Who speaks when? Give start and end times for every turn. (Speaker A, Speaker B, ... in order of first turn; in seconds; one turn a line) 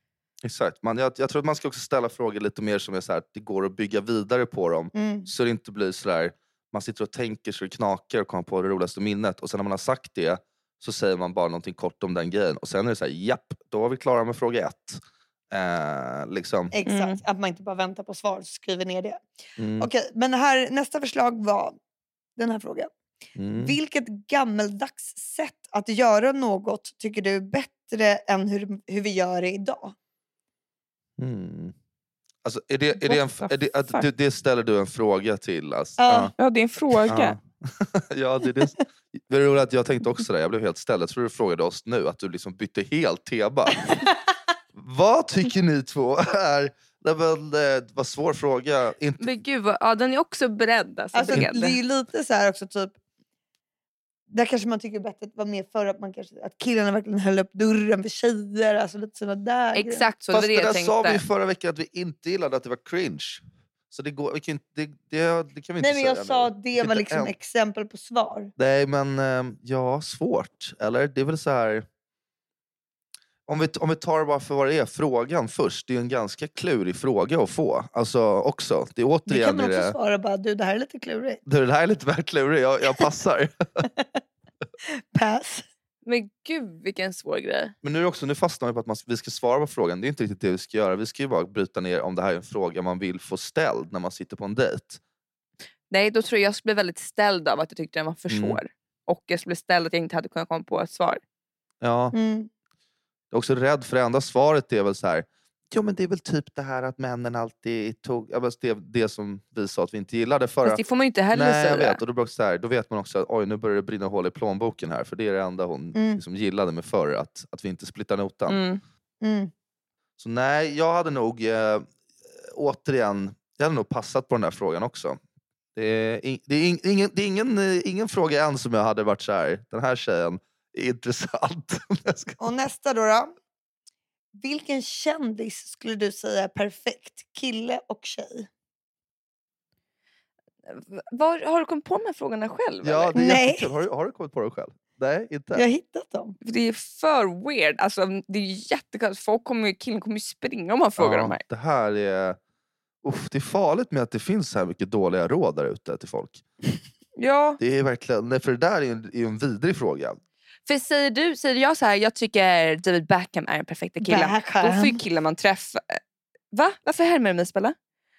Speaker A: 0.4-16.7
Speaker B: 4.9-5.3
Speaker B: 16.7-19.2
Speaker C: 16.9-17.2
Speaker A: 19.6-19.9
Speaker B: 19.8-21.8
Speaker B: 22.4-22.9
Speaker A: 23.4-23.8
Speaker B: 23.6-29.9
Speaker A: 31.2-31.7
Speaker A: 32.4-36.3
Speaker C: 32.9-34.0
Speaker B: 36.0-36.3
Speaker C: 36.4-37.4
Speaker A: 37.1-43.9
Speaker A: 44.8-49.3
Speaker C: 49.2-51.8
Speaker B: 51.1-53.0
Speaker B: 54.3-60.0
Speaker C: 59.7-61.2
Speaker A: 60.3-67.3
Speaker B: 65.8-68.5
Speaker A: 68.6-71.9
Speaker A: 73.5-80.0
Speaker B: 79.3-81.4
Speaker A: 81.5-83.9
Speaker B: 85.1-85.7
Speaker C: 86.0-87.7
Speaker A: 87.8-95.0
Speaker C: 95.9-101.2
Speaker A: 98.3-98.6
Speaker A: 101.8-102.1
Speaker B: 102.1-102.5
Speaker A: 103.3-118.6
Speaker C: 110.7-112.0
Speaker B: 116.0-116.2
Speaker C: 118.5-118.8
Speaker B: 119.2-119.5
Speaker A: 120.2-125.2
Speaker A: 125.8-132.4
Speaker B: 132.4-133.3
Speaker B: 134.3-138.5
Speaker C: 140.7-143.2
Speaker A: 142.8-145.6
Speaker B: 143.2-143.7
Speaker B: 145.5-146.3
Speaker C: 146.4-151.4
Speaker A: 151.0-152.4
Speaker A: 153.0-156.4
Speaker C: 157.2-157.6
Speaker A: 157.6-160.2
Speaker C: 160.7-166.0
Speaker B: 164.0-165.0
Speaker C: 166.5-167.8